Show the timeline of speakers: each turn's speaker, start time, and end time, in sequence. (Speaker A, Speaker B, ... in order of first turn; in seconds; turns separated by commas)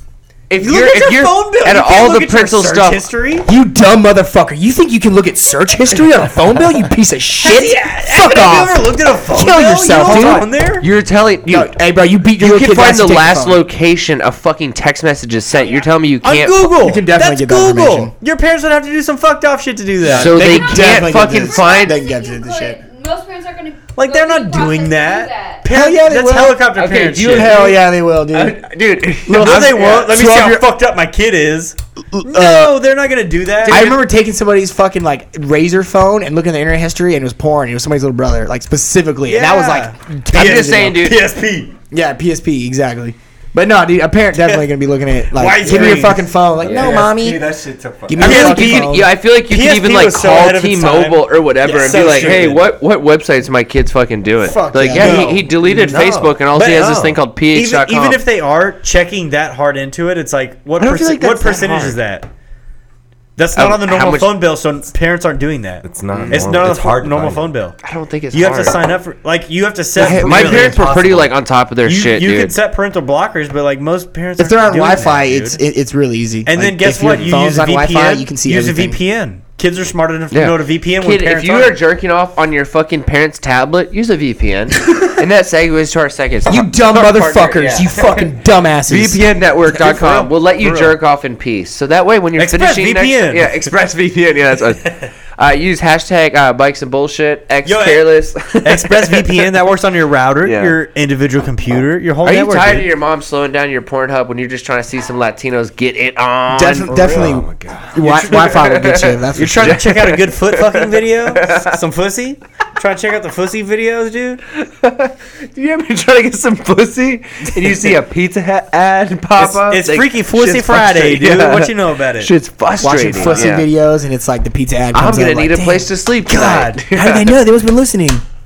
Speaker A: 0.5-3.1, Speaker B: 0.6-3.5, Speaker C: 3.5-10.5, Speaker B: 7.4-10.9, Speaker A: 10.0-11.8, Speaker C: 11.5-13.6, Speaker A: 12.4-16.6, Speaker D: 15.5-15.9, Speaker B: 16.2-20.6, Speaker C: 16.8-18.1, Speaker A: 20.0-22.0, Speaker C: 20.0-22.8, Speaker D: 20.4-25.7, Speaker B: 23.9-27.6, Speaker C: 25.6-28.6, Speaker A: 26.7-30.2, Speaker C: 29.2-30.7, Speaker B: 29.3-34.0, Speaker C: 32.1-32.7, Speaker C: 33.6-41.0, Speaker B: 39.3-41.7, Speaker A: 40.3-41.2, Speaker C: 41.9-47.5, Speaker B: 44.4-44.6, Speaker B: 45.3-46.3, Speaker E: 45.6-48.5, Speaker A: 46.6-47.0, Speaker C: 48.1-49.1, Speaker B: 48.2-52.6, Speaker A: 48.2-58.2, Speaker E: 52.0-52.5, Speaker C: 54.4-55.3, Speaker B: 54.9-62.3, Speaker A: 60.8-62.0, Speaker B: 63.4-67.8, Speaker A: 63.5-64.4, Speaker E: 65.8-67.5, Speaker A: 66.1-66.5, Speaker A: 67.8-68.8, Speaker B: 68.3-71.3, Speaker A: 70.0-72.6, Speaker E: 70.0-71.2, Speaker B: 71.8-75.6, Speaker C: 74.4-79.0, Speaker B: 76.5-81.8, Speaker A: 80.3-88.2, Speaker C: 86.5-89.2, Speaker A: 88.8-99.5, Speaker B: 89.7-90.9, Speaker B: 92.3-93.7, Speaker B: 97.6-102.9, Speaker A: 100.4-100.8, Speaker A: 102.2-107.3, Speaker C: 106.5-109.8, Speaker E: 107.0-107.9, Speaker B: 108.0-108.7, Speaker A: 108.3-111.8, Speaker B: 109.3-114.4, Speaker A: 114.6-123.7, Speaker B: 119.4-122.3, Speaker C: 122.8-125.9, Speaker B: 123.1-123.5, Speaker A: 124.9-127.3, Speaker B: 126.2-126.8, Speaker C: 126.9-128.2